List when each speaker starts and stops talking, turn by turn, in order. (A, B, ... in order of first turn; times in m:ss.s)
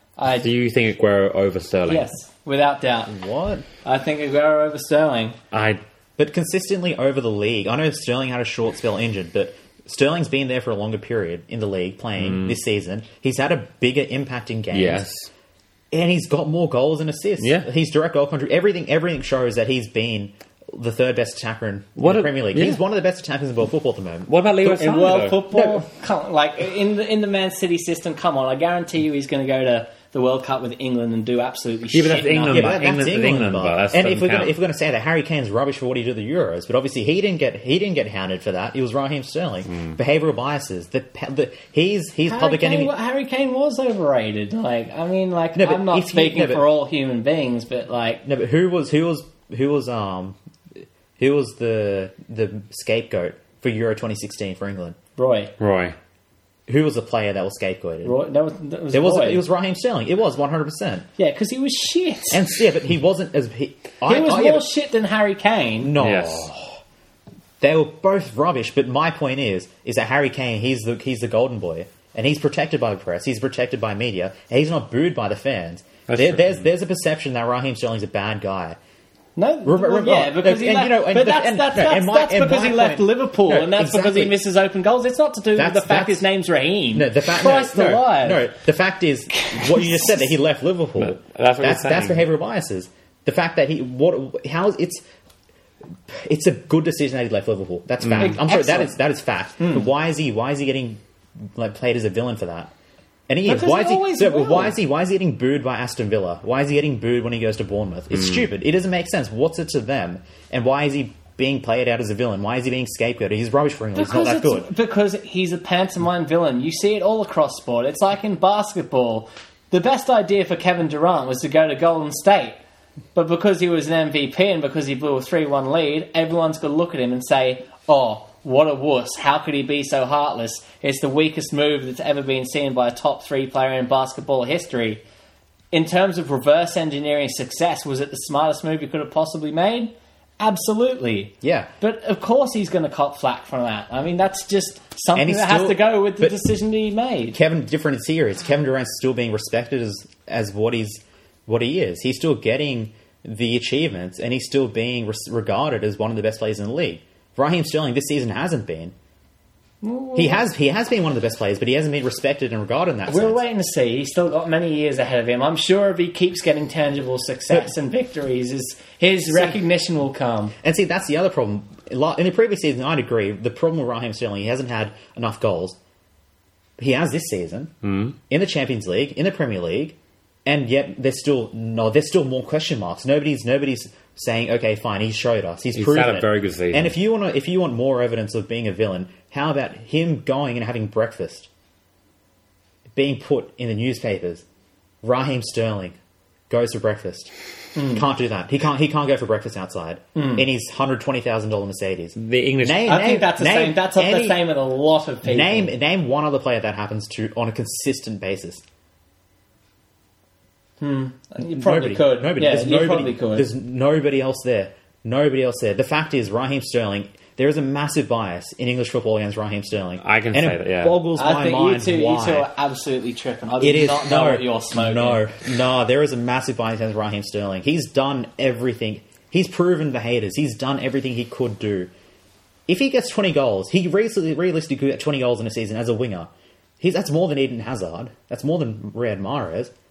0:00.2-0:00.5 A
0:00.3-0:02.0 B
0:01.9-0:03.1 A
0:03.1-0:03.6 C
0:03.8-0:05.4 A
0:05.5-0:05.8 B
0:06.2-0:15.1 C
0:12.2-0:12.6 B
0:14.7-0:15.3 B
0:15.9-0:24.3 C
0:17.4-0:17.7 B
0:22.0-0:22.8 B
0:24.3-0:25.5 B
0:24.6-0:32.8 A
0:25.5-0:25.8 C
0:31.9-0:34.6 B
0:32.5-0:42.9 C
0:42.2-0:48.2 A
0:45.6-0:46.6 C
0:48.2-0:50.4 C
0:51.2-0:55.0 C
0:55.2-0:55.5 A
0:55.6-0:56.0 B
0:56.7-0:58.1 C
0:58.0-0:59.4 A
0:58.9-1:01.0 C
1:01.2-1:02.4 A
1:02.3-1:04.7 C
1:04.0-1:05.9 A
1:05.8-1:06.8 C
1:06.0-1:06.5 B
1:07.6-1:18.8 C
1:16.1-1:16.6 B
1:19.4-1:28.5 A
1:19.6-1:24.4 C
1:25.6-1:26.2 C
1:26.9-1:35.0 C
1:29.4-1:30.2 A
1:31.0-1:32.2 B
1:36.1-1:41.0 C
1:38.0-1:38.4 B
1:38.1-1:38.9 A
1:39.6-1:39.8 A
1:41.6-1:42.7 C
1:43.3-1:54.7 C
1:43.4-1:44.7 A
1:53.9-2:02.6 A
2:03.1-2:15.0 A
2:15.7-2:27.4 A
2:21.4-2:21.7 C
2:25.1-2:26.4 C
2:27.3-2:38.9 C
2:39.8-2:40.4 A
2:40.1-2:43.4 C
2:43.1-2:50.6 A
2:49.3-2:49.6 C
2:50.6-2:55.8 C
2:56.8-2:57.7 C
2:57.8-2:58.2 B
2:58.3-3:11.5 C
3:05.7-3:06.9 B
3:12.9-3:14.4 C
3:15.0-3:16.0 C
3:16.5-3:24.4 C
3:17.7-3:18.0 A
3:20.1-3:20.4 A
3:22.2-3:22.9 B
3:22.8-3:25.7 A
3:25.2-3:28.6 C
3:30.8-3:33.5 A
3:31.5-3:42.5 C
3:40.0-3:41.0 B
3:41.2-3:45.2 A
3:43.6-3:51.9 C
3:52.7-3:59.7 C